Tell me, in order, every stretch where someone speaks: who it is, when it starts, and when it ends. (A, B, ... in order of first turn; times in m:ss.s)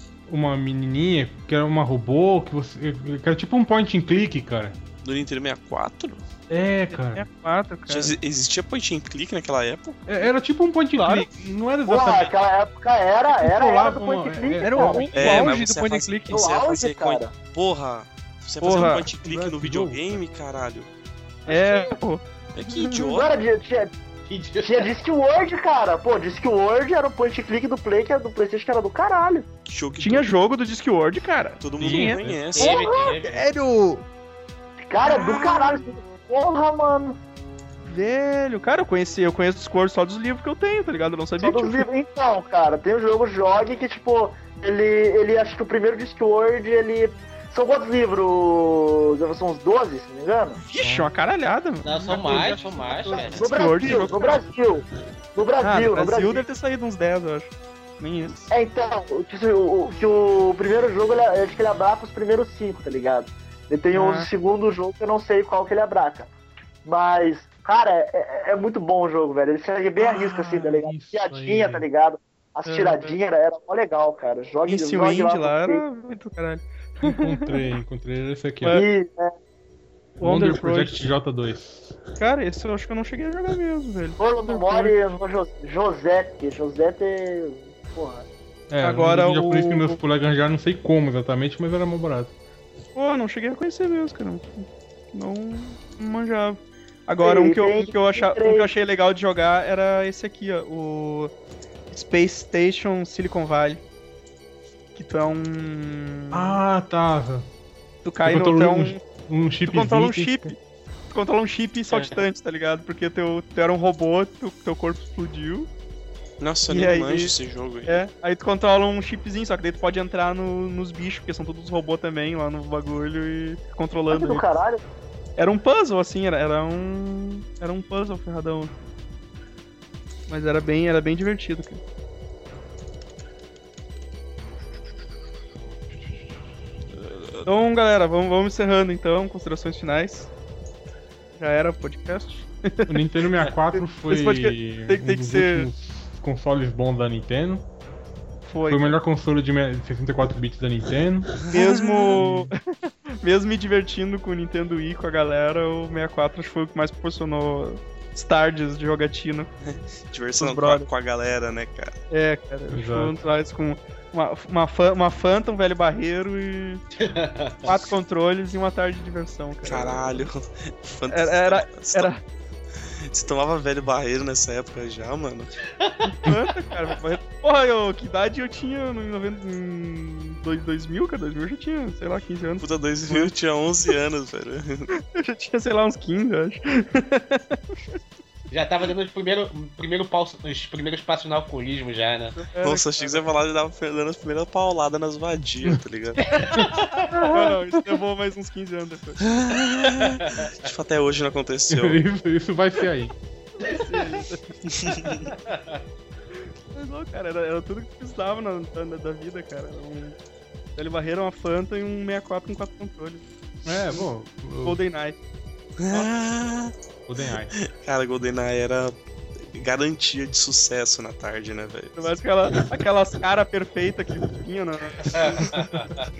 0:00.3-0:04.8 A
0:05.0-0:06.2 B
0:06.5-0:07.2 A
0:06.9-0:08.2 C
0:07.9-0:10.0 B
0:10.0-0:12.3 A
0:11.0-0:11.3 C
0:11.8-0:15.5 D
0:13.3-0:15.1 A
0:14.6-0:16.4 E
0:15.1-0:20.9 B
0:16.3-0:17.3 D
0:18.6-0:19.1 C
0:19.2-0:20.2 A
0:21.5-0:23.0 C
0:21.5-0:21.9 B
0:22.5-0:23.3 B
0:23.0-0:23.9 D
0:24.3-0:25.0 F
0:24.6-0:29.5 D
0:29.6-0:30.3 B
0:30.0-0:31.6 C
0:31.6-0:32.7 B
0:31.8-0:32.4 A
0:31.8-0:34.0 E
0:32.6-0:33.5 F
0:34.8-0:37.2 D
0:37.9-0:41.9 C
0:41.4-0:50.6 D
0:50.6-0:54.3 C
0:51.8-0:53.5 F
0:52.2-0:53.4 E
0:53.3-0:56.4 D
0:55.6-0:58.4 C
0:58.5-1:06.3 D
1:03.9-1:04.3 C
1:06.8-1:15.8 D
1:10.0-1:11.9 A
1:12.6-1:13.1 C
1:14.7-1:17.7 C
1:17.0-1:18.8 A
1:18.6-1:18.9 C
1:18.7-1:19.3 D
1:20.2-1:21.1 C
1:20.2-1:21.9 A
1:22.2-1:24.9 C
1:24.2-1:28.2 D
1:28.7-1:32.3 A
1:28.8-1:30.0 C
1:33.0-1:41.3 C
1:37.2-1:38.7 D
1:41.9-1:43.8 C
1:44.9-1:46.6 C
1:46.3-1:47.5 A
1:48.0-1:49.0 C
1:48.2-1:50.5 A
1:49.6-1:50.6 C
1:51.1-1:55.7 C
1:51.9-1:52.2 F
1:56.4-1:58.0 B
1:56.7-1:57.3 C
1:57.9-2:04.4 C
2:04.1-2:04.8 D
2:05.4-2:08.7 C
2:10.3-2:11.8 C
2:17.0-2:17.4 B
2:17.4-2:20.3 C
2:21.4-2:23.0 C
2:22.9-2:27.6 A
2:23.7-2:25.7 C
2:28.5-2:29.0 C
2:28.7-2:31.5 A
2:31.5-2:32.2 B
2:31.5-2:39.5 C
2:32.1-2:32.5 A
2:39.6-2:42.0 B
2:40.4-2:40.9 C
2:42.1-2:46.8 C
2:42.7-2:43.1 A
2:47.0-2:47.8 F
2:47.6-2:50.3 C
2:49.6-2:52.1 B
2:51.1-2:52.2 C
2:53.1-2:55.5 B
2:55.8-2:56.1 F
2:56.2-3:03.3 C
3:02.6-3:04.9 B
3:05.0-3:07.8 C
3:08.5-3:12.4 F
3:12.3-3:13.2 C
3:12.6-3:16.2 B
3:16.5-3:16.9 F
3:16.5-3:17.6 A
3:17.3-3:19.2 C
3:19.2-3:22.0 B
3:19.8-3:20.7 F
3:21.7-3:23.1 A
3:23.6-3:24.5 C
3:24.6-3:25.2 B
3:25.2-3:25.8 F
3:26.7-3:30.2 C
3:30.8-3:33.2 C
3:33.6-3:34.8 A
3:34.6-3:35.2 C
3:35.8-3:36.7 B
3:37.1-3:37.5 A
3:37.5-3:42.2 B
3:42.0-3:45.6 C
3:45.0-3:46.1 F